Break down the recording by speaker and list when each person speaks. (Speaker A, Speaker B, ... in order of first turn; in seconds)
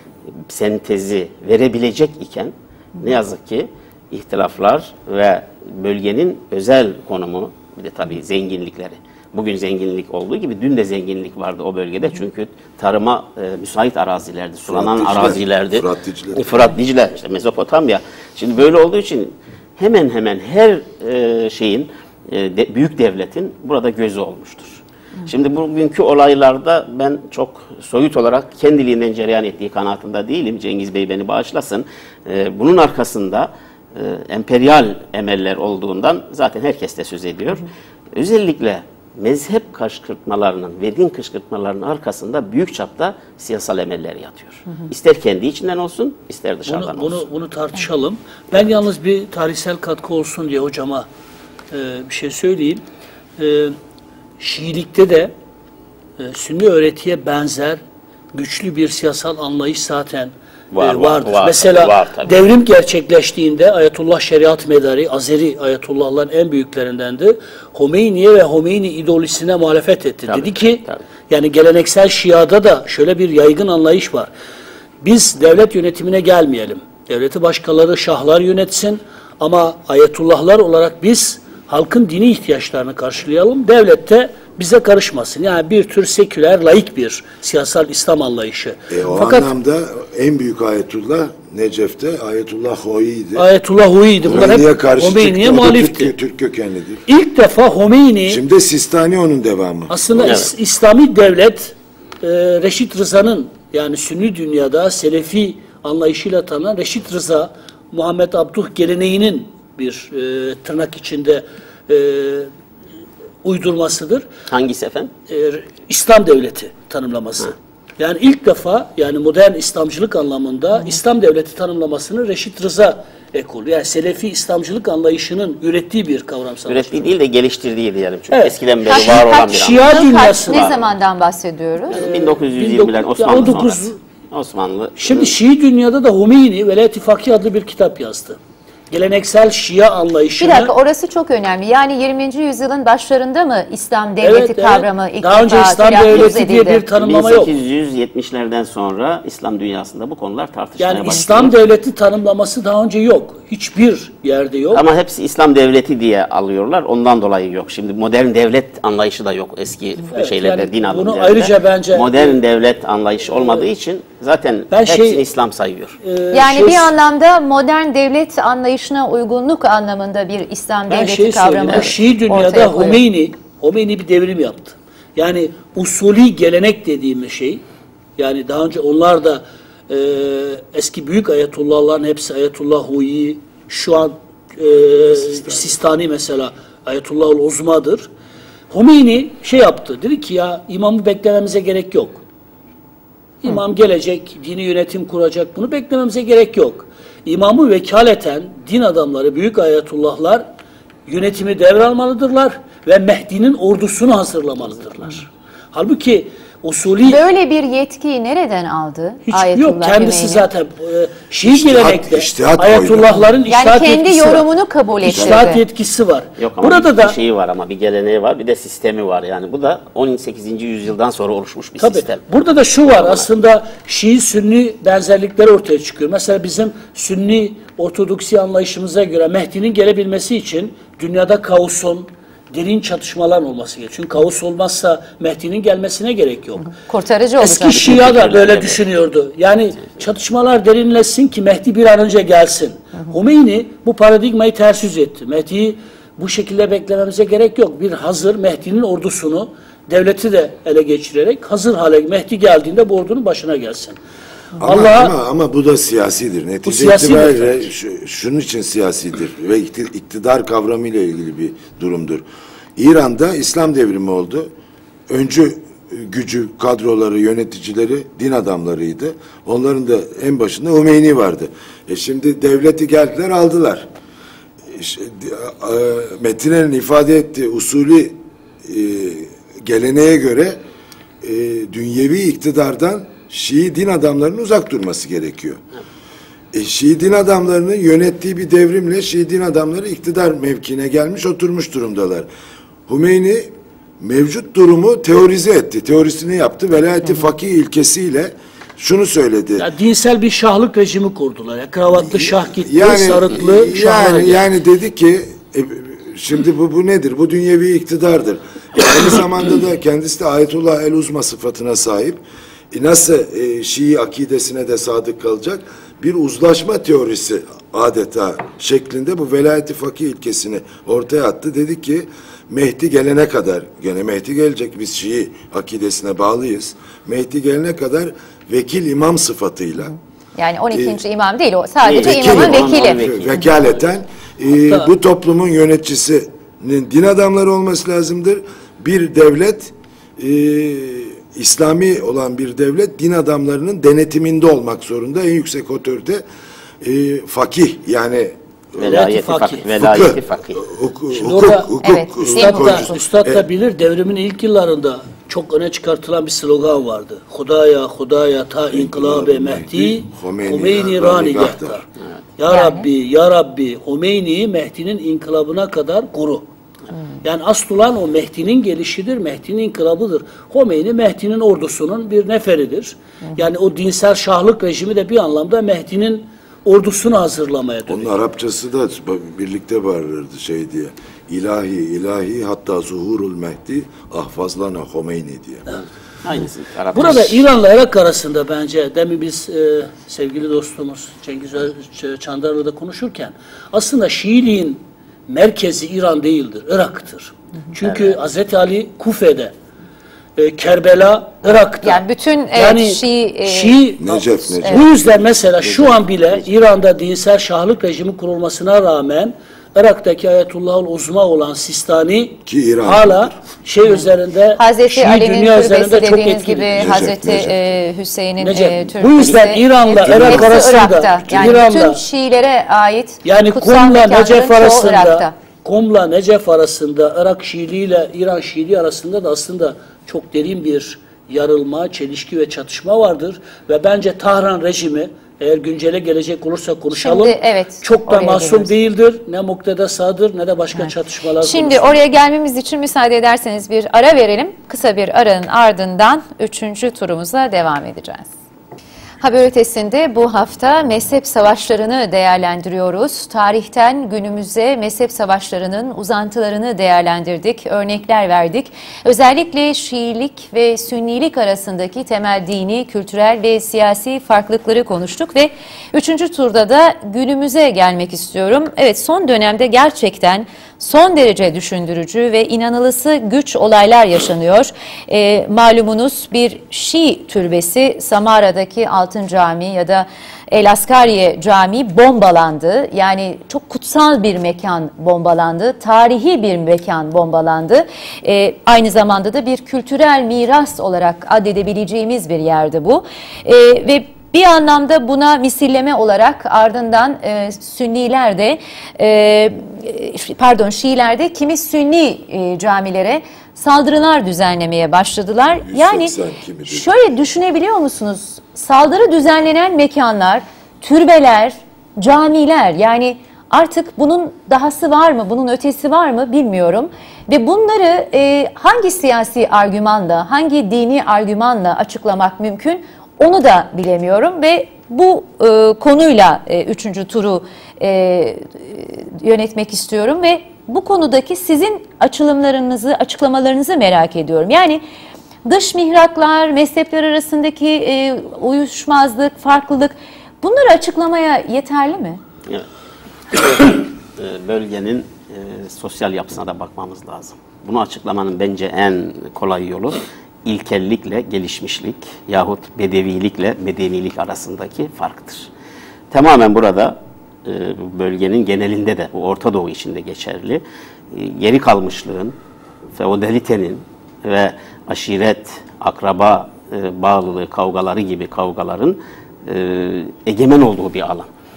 Speaker A: 0.5-47.3, 60.7-62.4, 70.3-71.0, 100.2-100.5, 114.5-115.1, 126.7-130.8, 131.9-135.3, 147.0-151.5, 154.7-166.0, 216.4-222.2, 222.8-223.3, 237.5-238.8, 331.8-333.4, 348.8-350.6, 386.2-387.4, 405.7-406.0, 543.3-555.5, 556.1-562.4, 563.0-571.3
Speaker B: 14.7-16.5, 88.9-93.5, 94.2-97.0, 98.3-100.4, 185.2-185.7, 211.4-213.3, 215.1-215.5, 254.6-262.2, 262.8-264.5, 265.1-273.9, 274.7-280.6, 281.2-285.6, 286.5-292.3, 292.9-299.7, 302.1-330.0, 330.7-331.0, 331.9-346.2, 346.8-349.0, 349.8-353.4, 358.7-361.8, 377.9-385.7, 404.0-404.9, 412.5-413.4, 416.8-417.5, 420.1-420.7, 505.6-506.9
Speaker C: 46.7-51.1, 51.7-52.8, 53.4-53.8, 54.4-55.3, 56.2-57.8, 58.3-74.3, 75.0-89.5, 93.3-96.1, 97.1-98.4, 99.9-112.5, 113.4-114.3, 115.3-127.1, 128.3-130.7, 131.9-134.0, 135.0-138.4, 138.9-140.7, 144.2-147.6, 150.8-154.8, 160.1-162.4, 164.7-165.2, 166.0-166.9, 170.9-177.6, 178.2-188.1, 188.7-192.2, 193.4-200.4, 201.1-207.2, 209.3-214.5, 215.0-217.2, 221.8-236.7, 237.4-254.0, 254.7-255.2, 256.6-257.7, 299.6-304.4, 348.8-349.8, 351.1-351.7, 352.3-361.8, 362.4-366.4, 367.2-378.1, 386.9-399.5, 400.4-417.1, 418.4-422.0, 423.2-442.0
Speaker D: 128.8-132.0, 140.4-146.8, 166.3-173.0, 207.0-210.5, 213.5-215.6, 236.7-238.0, 330.4-333.0, 351.8-352.9, 362.5-362.9, 401.8-403.8, 414.6-425.3, 436.9-438.7, 441.4-448.3, 449.2-506.1, 506.7-534.8, 535.5-542.2